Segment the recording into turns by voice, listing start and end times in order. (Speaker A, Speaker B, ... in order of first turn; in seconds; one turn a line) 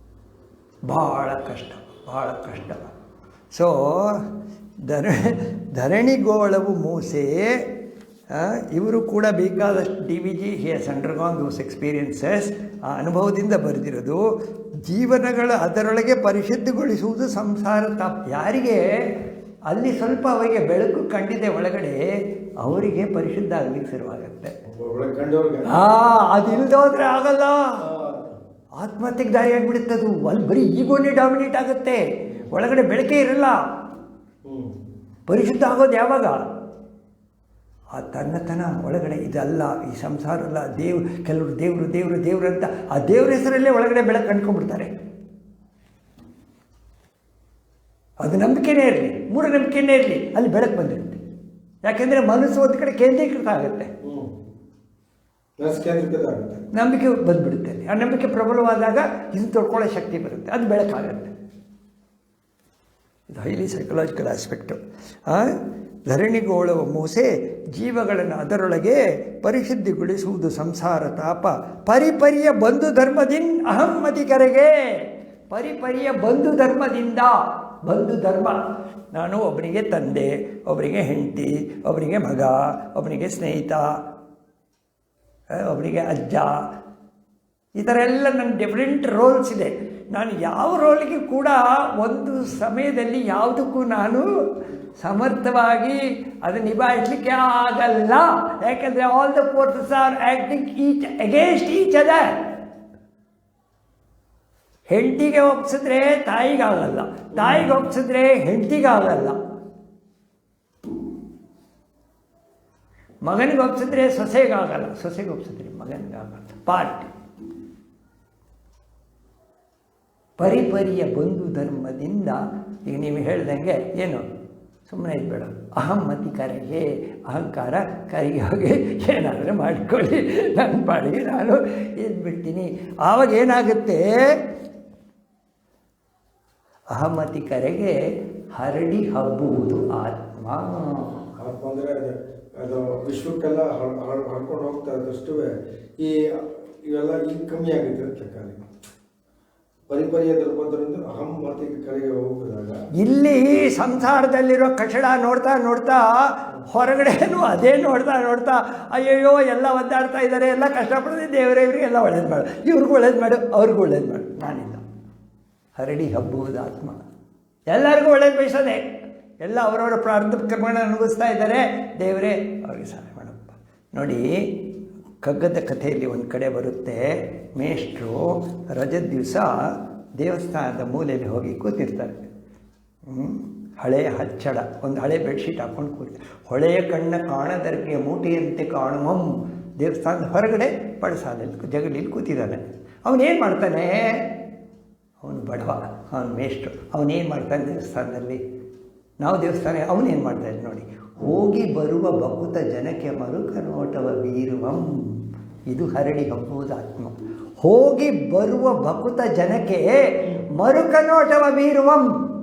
Speaker A: 0.8-2.9
Speaker A: 3.5-4.3
Speaker A: 4.8-7.7
Speaker A: 8.3-14.2
Speaker A: 14.8-19.2
Speaker A: 19.7-22.0
Speaker A: 22.6-24.6
Speaker B: 24.7-25.8
Speaker A: 25.7-27.8
Speaker B: 26.4-26.7
Speaker B: 27.8-28.4
Speaker A: 28.8-33.6
Speaker B: 34.5-34.7
Speaker A: 35.3-36.5
Speaker A: 38.0-44.9
Speaker A: 48.2-51.2
Speaker A: 51.8-53.9
Speaker B: 54.0-54.3
Speaker B: 55.6-56.6
Speaker A: 56.7-61.3
Speaker A: 63.3-78.6
Speaker A: 79.1-84.0
Speaker A: 85.6-86.6
Speaker A: 87.8-94.3
Speaker A: 95.0-102.4
Speaker A: 104.9-109.4
Speaker B: 107.3-107.7
Speaker A: 113.2-117.1
Speaker A: 120.4-124.2
Speaker A: 124.9-134.4
Speaker A: 136.9-138.0
Speaker A: 138.5-141.3
Speaker B: 141.4-148.6
Speaker B: 149.9-152.8
Speaker A: 153.0-164.8
Speaker A: 165.8-167.0
Speaker A: 167.7-168.8
Speaker A: 169.4-174.7
Speaker A: 175.2-182.2
Speaker A: 183.1-194.3
Speaker A: 195.2-198.4
Speaker A: 199.2-212.1